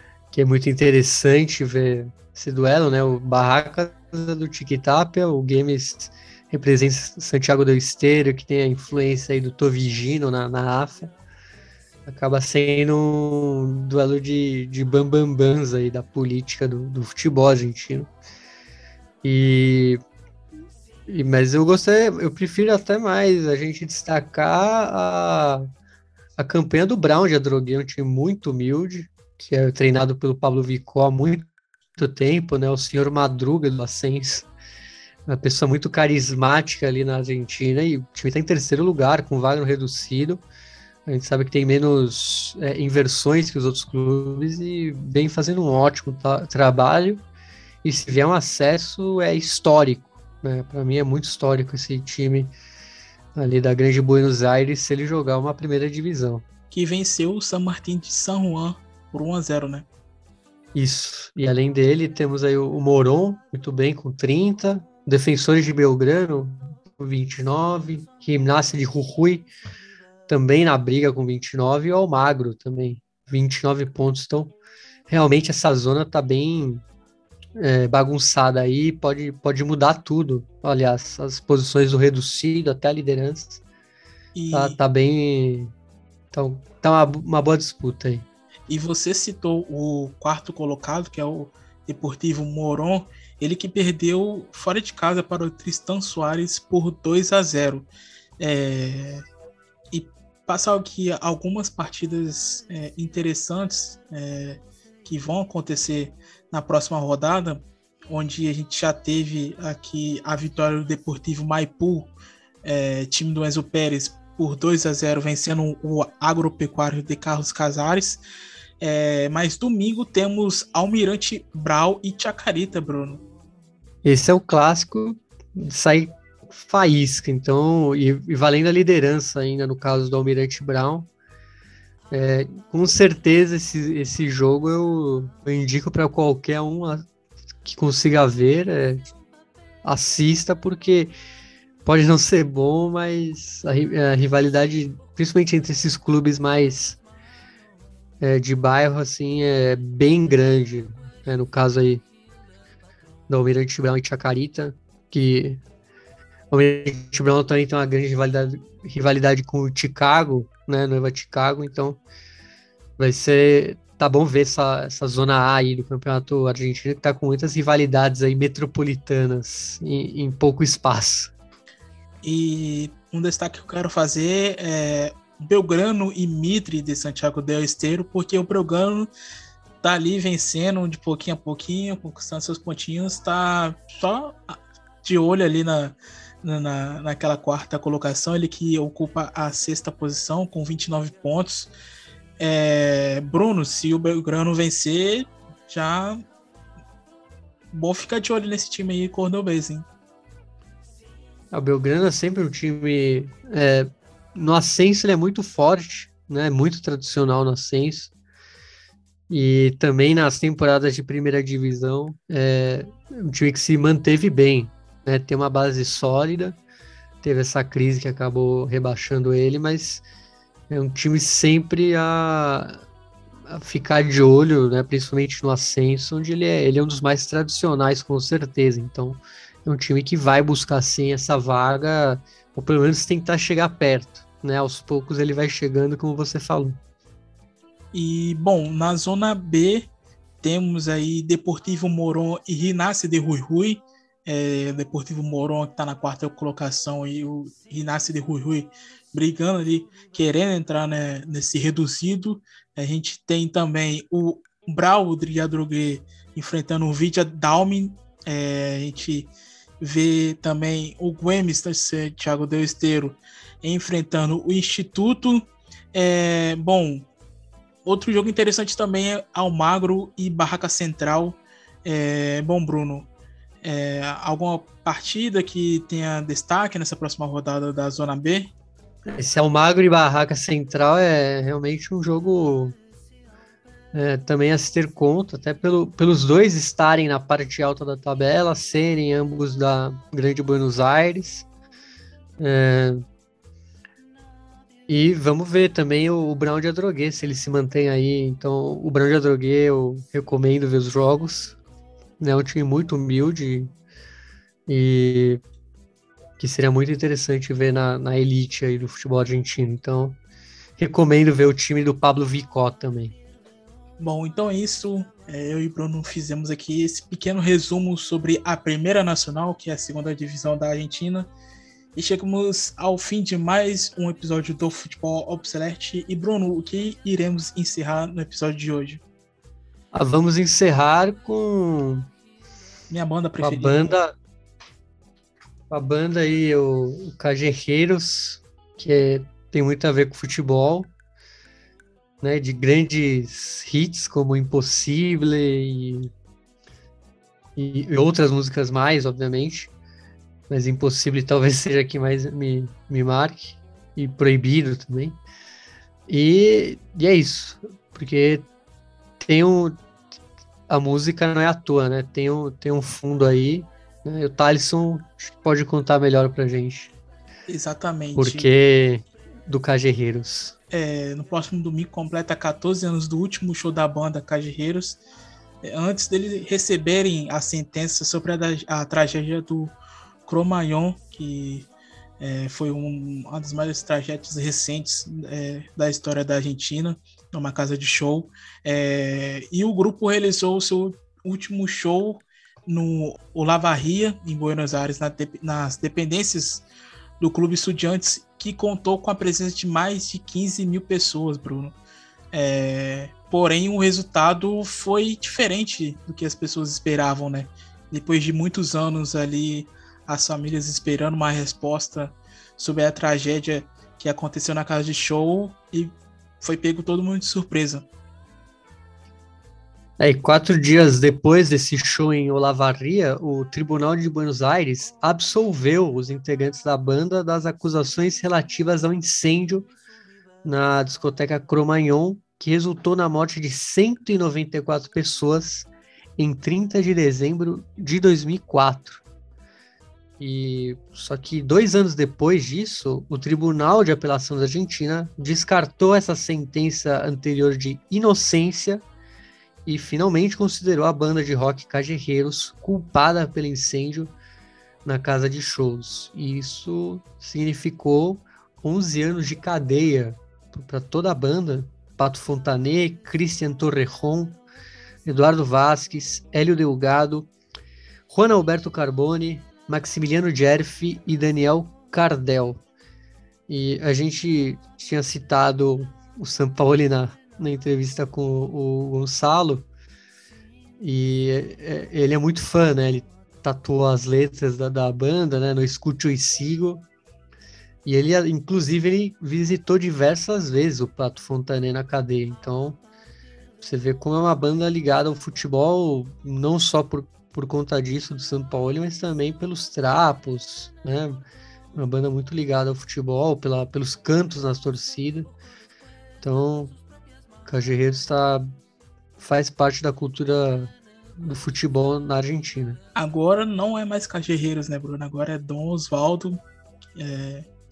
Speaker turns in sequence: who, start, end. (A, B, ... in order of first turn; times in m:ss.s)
0:00.3-0:11.1 A
0:12.0-0:18.1 A
0:19.2-0:20.0 A
0:21.1-0:25.7 A
0:26.4-0:31.4 A
0:32.0-0:34.5 A
0:35.3-0:40.4 A
0:41.0-0:47.2 A
0:47.8-0:52.5 A
0:53.3-0:56.4 A
0:56.7-0:59.8 B
1:00.7-1:09.5 A
1:10.3-1:14.5 A
1:15.1-1:16.8 A
1:17.6-1:23.6 A
1:24.3-1:24.8 B
1:24.5-1:25.7 A
1:26.3-1:28.2 A
1:28.7-1:39.2 B
1:39.9-1:58.2 B
1:58.8-2:03.2 B
2:04.0-2:11.1 A
2:12.1-2:17.0 A
2:17.6-2:19.1 A
2:19.8-2:21.1 A
2:21.8-2:27.0 A
2:28.2-2:32.0 A
2:33.3-2:35.6 A
2:36.5-2:42.0 A
2:43.0-2:51.3 A
2:52.2-2:59.1 B
2:59.8-3:11.7 B
3:12.4-3:16.2 B
3:17.7-3:19.8 B
3:21.5-3:28.1 A
3:29.3-3:36.6 A
3:37.2-3:40.0 A
3:40.7-3:42.8 A
3:43.5-3:56.8 A
3:57.9-3:59.9 B
4:00.4-4:27.1 B
4:27.8-4:33.1 B
4:33.6-4:38.5 B
4:39.2-4:42.7 A
4:43.9-4:51.4 A
4:52.4-4:53.0 A
4:54.9-5:01.5 A
5:02.2-5:03.7 A
5:04.7-5:05.4 A
5:06.4-5:10.2 A
5:10.8-5:13.1 A
5:14.0-5:21.3 B
5:21.9-5:29.0 B
5:29.9-5:32.1 A
5:32.9-5:33.9 B
5:33.4-5:34.1 A
5:35.7-5:40.9 A
5:42.2-5:46.1 A
5:47.6-5:49.7 A
5:50.5-5:55.2 A
5:56.1-5:58.4 A
5:59.2-5:59.8 A
6:00.7-6:06.9 A
6:07.5-6:08.5 B
6:08.2-6:10.5 A
6:10.7-6:15.0 B
6:15.6-6:21.7 B
6:22.2-6:36.6 B
6:37.2-6:41.8 B
6:42.3-6:57.8 B
7:00.0-7:09.7 A
7:10.4-7:15.7 A
7:16.2-7:19.0 A
7:20.2-7:28.8 A
7:29.6-7:34.1 A
7:34.8-7:44.4 A
7:45.0-7:47.3 A
7:48.1-7:52.6 A
7:53.5-7:59.7 A
8:00.8-8:06.8 A
8:07.8-8:12.8 A
8:13.6-8:21.2 A
8:21.7-8:25.3 A
8:26.2-8:26.7 A
8:27.4-8:28.5 A
8:29.2-8:32.8 A
8:33.0-8:36.4 B
8:37.0-8:37.4 B